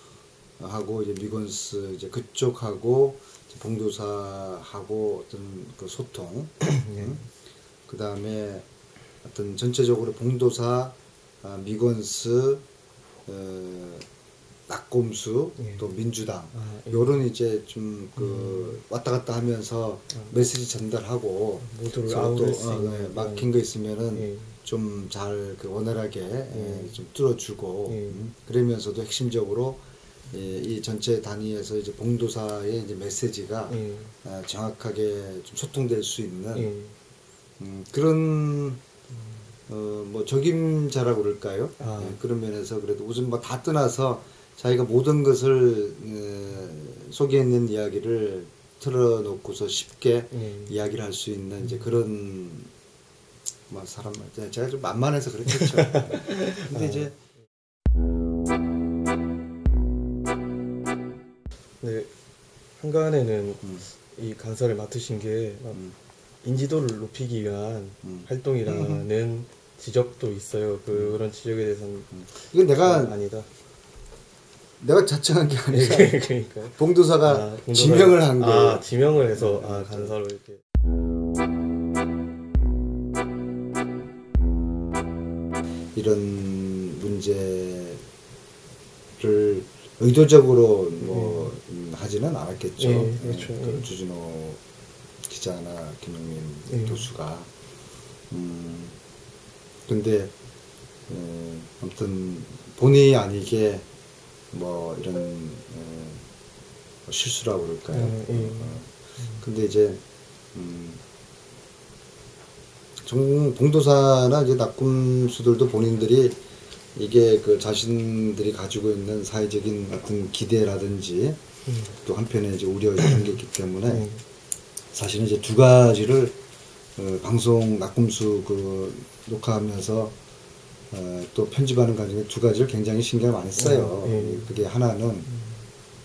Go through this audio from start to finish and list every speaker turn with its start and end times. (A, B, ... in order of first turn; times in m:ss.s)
0:00.6-0:07.3 A
0:06.6-0:07.3 B
0:07.9-0:08.7 A
0:09.2-0:12.6 A
0:13.3-0:14.1 A
0:14.7-0:36.7 A
0:15.6-0:15.9 B
0:16.5-0:17.2 B
0:18.2-0:18.8 B
0:21.6-0:23.5 B
0:24.1-0:24.5 B
0:26.5-0:27.0 B
0:27.9-0:28.2 B
0:33.7-0:34.1 B
0:36.6-0:37.0 B
0:37.6-0:38.8 A
0:39.7-0:52.7 A
0:41.8-0:42.2 B
0:50.3-0:50.8 B
0:53.7-0:57.2 A
0:55.7-0:57.1 B
1:01.8-1:02.1 B
1:02.8-1:05.8 B
1:06.4-1:12.1 B
1:08.0-1:09.1 A
1:10.9-1:11.2 A
1:12.1-1:13.2 A
1:12.8-1:13.5 B
1:14.8-1:16.2 A
1:15.7-1:20.6 B
1:16.8-1:20.2 A
1:26.0-1:28.0 A
1:29.2-1:34.6 A
1:31.0-1:31.5 B
1:32.8-1:33.9 B
1:35.3-1:37.5 A
1:36.7-1:37.0 B
1:38.3-1:39.0 A
1:39.9-1:40.3 A
1:41.1-1:43.9 A
1:44.5-1:46.2 A
1:47.1-1:50.0 A
1:47.9-1:49.4 B
1:50.5-1:51.0 A
1:53.0-1:56.4 A
1:57.0-2:01.4 A
2:01.7-2:01.9 B
2:02.0-2:04.1 A
2:03.9-2:04.2 B
2:04.9-2:06.4 A
2:07.0-2:10.2 A
2:10.9-2:15.3 A
2:13.6-2:14.6 B
2:15.3-2:15.6 B